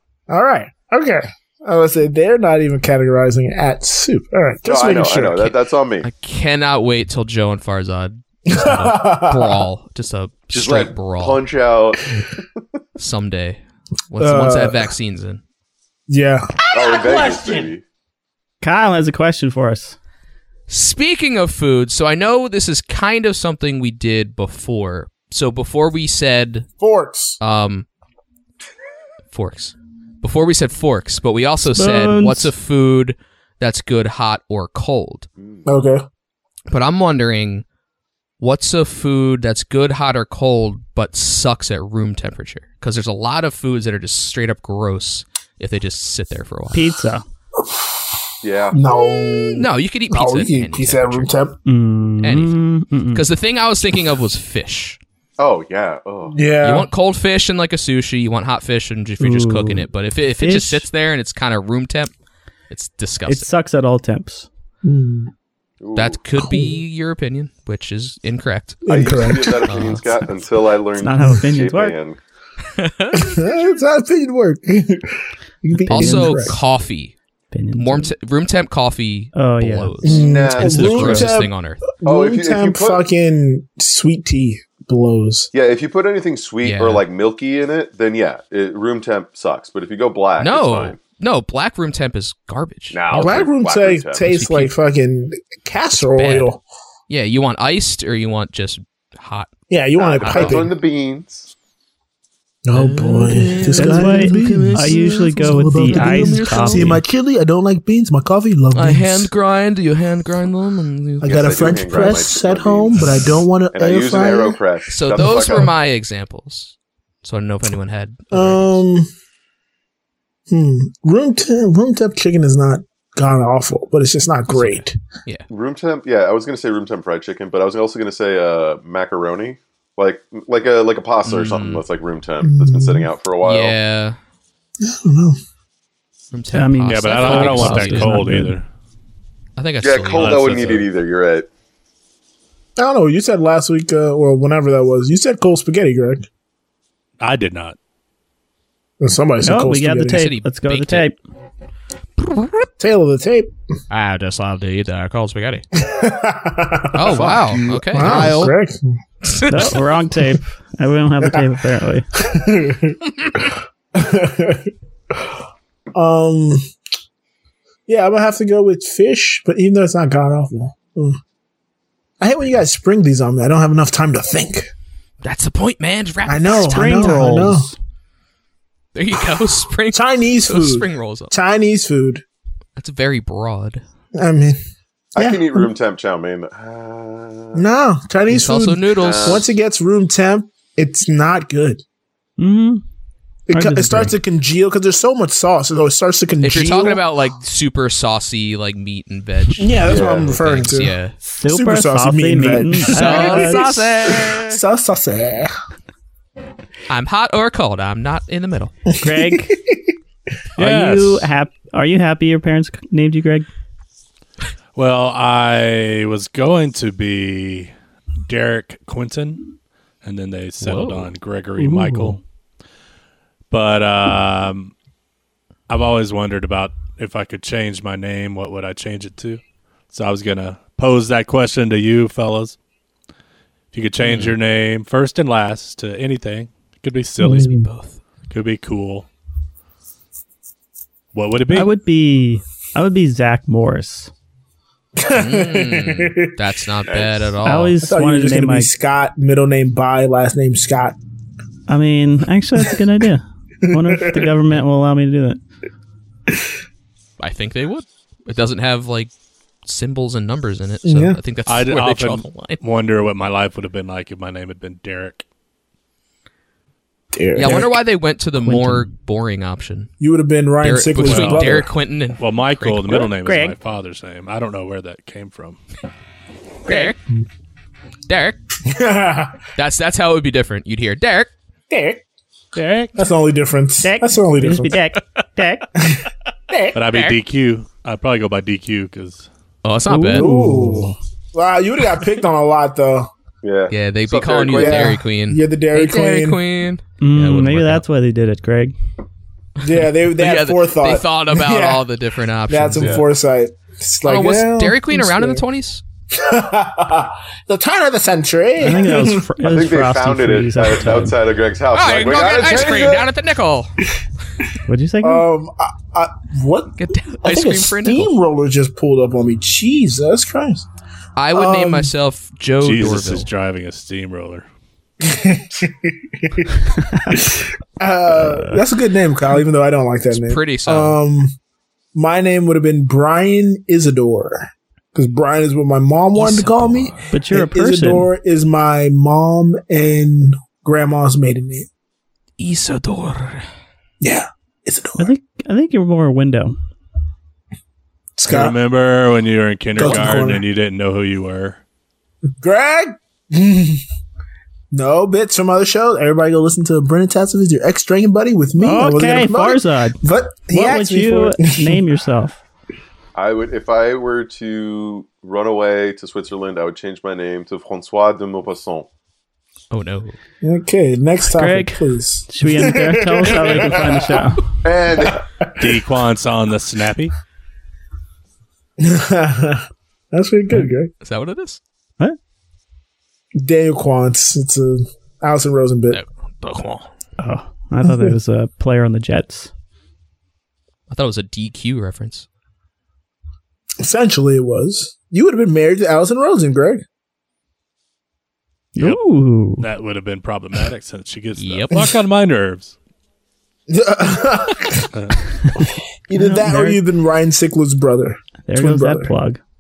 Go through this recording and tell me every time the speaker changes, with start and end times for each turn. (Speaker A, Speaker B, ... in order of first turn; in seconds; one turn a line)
Speaker A: 0.3-5.5
Speaker B: 4.7-6.1
Speaker C: 6.0-11.4
Speaker A: 8.5-9.7
Speaker B: 10.5-12.4
Speaker C: 13.0-13.6
Speaker C: 14.1-15.4
Speaker A: 14.2-14.9
Speaker A: 16.1-17.7
Speaker B: 16.7-17.8
Speaker D: 18.6-20.0
Speaker C: 20.7-26.7
Speaker A: 26.8-27.4
Speaker C: 27.4-27.9
Speaker C: 29.3-35.3
Speaker D: 31.7-32.5
Speaker A: 35.6-36.0
Speaker C: 36.7-37.6
Speaker C: 38.4-47.0
Speaker D: 46.7-47.2
Speaker A: 47.6-51.6
Speaker B: 48.4-48.8
Speaker C: 49.5-51.3
Speaker D: 51.7-53.3
Speaker C: 52.2-55.0
Speaker B: 55.4-56.4
Speaker A: 56.3-56.9
Speaker C: 56.6-62.1
Speaker D: 59.2-60.9
Speaker C: 62.7-63.5
Speaker D: 63.3-64.5
Speaker A: 64.8-65.3
Speaker B: 65.8-66.2
Speaker C: 66.0-68.8
Speaker A: 66.4-66.8
Speaker A: 68.8-69.7
Speaker B: 68.9-72.2
Speaker C: 69.7-70.3
Speaker D: 71.0-72.0
Speaker C: 72.8-73.4
Speaker A: 73.1-76.6
Speaker D: 75.8-76.5
Speaker C: 75.9-77.2
Speaker D: 77.5-78.1
Speaker C: 77.8-81.8
Speaker D: 79.3-79.9
Speaker A: 80.0-85.5
Speaker B: 80.1-81.0
Speaker D: 80.8-81.3
Speaker B: 82.0-83.0
Speaker B: 85.5-91.0
Speaker C: 86.6-87.0
Speaker C: 90.4-93.5
Speaker B: 92.9-94.4
Speaker A: 93.1-96.6
Speaker C: 94.3-94.7
Speaker C: 96.0-96.5
Speaker C: 97.1-99.5
Speaker A: 99.7-100.8
Speaker B: 100.0-101.5
Speaker C: 100.2-100.7
Speaker A: 102.7-109.3
Speaker C: 102.7-106.9
Speaker D: 103.8-107.0
Speaker C: 108.7-112.2
Speaker A: 111.2-114.6
Speaker B: 111.2-113.1
Speaker B: 113.7-115.7
Speaker C: 114.9-118.8
Speaker A: 118.3-119.1
Speaker A: 120.5-125.0
Speaker C: 124.5-125.5
Speaker B: 125.5-133.8
Speaker C: 131.2-131.8
Speaker A: 132.4-133.1
Speaker C: 133.4-134.2
Speaker A: 134.8-135.4
Speaker C: 136.3-138.3
Speaker D: 136.5-138.6
Speaker E: 136.9-138.7
Speaker C: 139.6-140.8
Speaker B: 139.8-141.5
Speaker E: 140.2-140.8
Speaker A: 142.8-146.3
Speaker E: 147.2-147.8
Speaker A: 149.0-150.3
Speaker D: 149.4-151.2
Speaker C: 150.0-151.1
Speaker A: 152.8-153.5
Speaker C: 153.9-155.7
Speaker A: 155.8-159.0
Speaker C: 156.9-158.5
Speaker C: 159.2-159.8
Speaker D: 159.5-162.1
Speaker A: 162.2-163.0
Speaker A: 163.9-165.3
Speaker A: 165.9-166.7
Speaker A: 167.9-171.2
Speaker A: 172.2-174.7
Speaker C: 175.2-177.2
Speaker A: 176.3-177.7
Speaker D: 176.6-177.8
Speaker C: 178.9-181.3
Speaker A: 179.9-182.2
Speaker C: 182.8-183.8
Speaker A: 184.2-184.6
Speaker B: 185.2-187.6
Speaker A: 185.2-185.7
Speaker A: 187.5-191.8
Speaker C: 188.3-189.5
Speaker B: 189.0-189.5
Speaker D: 192.4-192.8
Speaker A: 193.5-197.0
Speaker D: 193.5-194.1
Speaker C: 196.4-201.2
Speaker A: 199.6-205.5
Speaker B: 199.8-200.4
Speaker D: 201.4-203.6
Speaker C: 202.9-204.6
Speaker C: 206.9-208.7
Speaker D: 209.0-209.6
Speaker A: 209.0-209.8
Speaker D: 210.6-213.5
Speaker E: 210.6-211.3
Speaker E: 214.8-217.7
Speaker E: 218.3-219.5
Speaker E: 220.0-222.2
Speaker C: 220.6-221.1
Speaker D: 221.6-222.2
Speaker E: 223.5-224.7
Speaker E: 225.7-232.6
Speaker E: 233.7-237.5
Speaker C: 234.0-234.3
Speaker A: 237.2-237.7
Speaker C: 237.4-238.0
Speaker E: 238.3-239.1
Speaker E: 241.1-241.7
Speaker D: 241.5-244.1
Speaker A: 245.0-246.3
Speaker C: 245.1-247.8
Speaker B: 246.9-247.3
Speaker D: 247.4-248.7
Speaker A: 247.8-251.0
Speaker D: 251.7-255.4
Speaker A: 253.6-254.3
Speaker C: 257.2-259.1
Speaker C: 259.7-262.6
Speaker A: 260.9-261.2
Speaker E: 261.5-265.2
Speaker A: 267.1-267.7
Speaker C: 267.4-269.9
Speaker D: 268.5-268.8
Speaker A: 270.0-271.7
Speaker C: 270.6-273.1
Speaker E: 271.0-271.6
Speaker E: 272.2-275.6
Speaker D: 273.2-273.6
Speaker C: 276.7-277.0
Speaker A: 276.7-277.2
Speaker C: 278.1-278.4
Speaker A: 278.6-279.4
Speaker C: 279.6-281.3
Speaker A: 281.7-282.0
Speaker E: 282.6-283.0
Speaker A: 283.0-284.8
Speaker D: 283.8-285.7
Speaker A: 285.8-286.9
Speaker E: 286.7-289.3
Speaker C: 289.6-290.3
Speaker D: 289.9-290.9
Speaker A: 290.1-293.1
Speaker B: 293.4-295.0
Speaker C: 293.7-297.8
Speaker A: 294.5-296.4
Speaker D: 297.0-298.7
Speaker A: 299.6-301.9
Speaker C: 299.7-303.0
Speaker A: 302.5-305.4
Speaker B: 302.8-303.1
Speaker C: 304.1-305.8
Speaker A: 306.1-309.2
Speaker D: 308.6-311.2
Speaker B: 309.4-313.1
Speaker C: 311.7-313.8
Speaker D: 314.7-315.3
Speaker A: 315.0-320.7
Speaker C: 316.8-318.1
Speaker C: 321.2-323.3
Speaker A: 321.3-321.9
Speaker E: 322.6-324.5
Speaker A: 325.0-326.5
Speaker A: 327.1-331.3
Speaker D: 328.1-328.6
Speaker C: 330.1-331.0
Speaker A: 331.9-341.7
Speaker C: 336.1-337.1
Speaker D: 337.1-338.1
Speaker C: 342.4-343.4
Speaker A: 344.0-345.1
Speaker D: 345.0-346.6
Speaker A: 348.2-348.6
Speaker E: 348.3-351.6
Speaker A: 349.8-350.4
Speaker A: 352.4-353.8
Speaker A: 354.7-361.8
Speaker D: 358.6-362.4
Speaker B: 363.1-368.9
Speaker C: 369.7-370.2
Speaker A: 370.4-374.3
Speaker D: 371.3-374.5
Speaker B: 374.6-375.2
Speaker A: 375.0-375.8
Speaker E: 375.6-377.1
Speaker A: 378.8-380.9
Speaker C: 381.0-381.6
Speaker A: 383.4-386.0
Speaker C: 385.9-386.9
Speaker D: 387.2-389.5
Speaker A: 387.8-388.1
Speaker C: 390.9-392.3
Speaker A: 393.8-396.9
Speaker D: 398.8-399.7
Speaker E: 399.6-402.8
Speaker C: 401.4-401.9
Speaker A: 403.7-404.9
Speaker E: 404.9-405.2
Speaker D: 405.4-406.8
Speaker A: 406.1-409.1
Speaker D: 408.5-409.4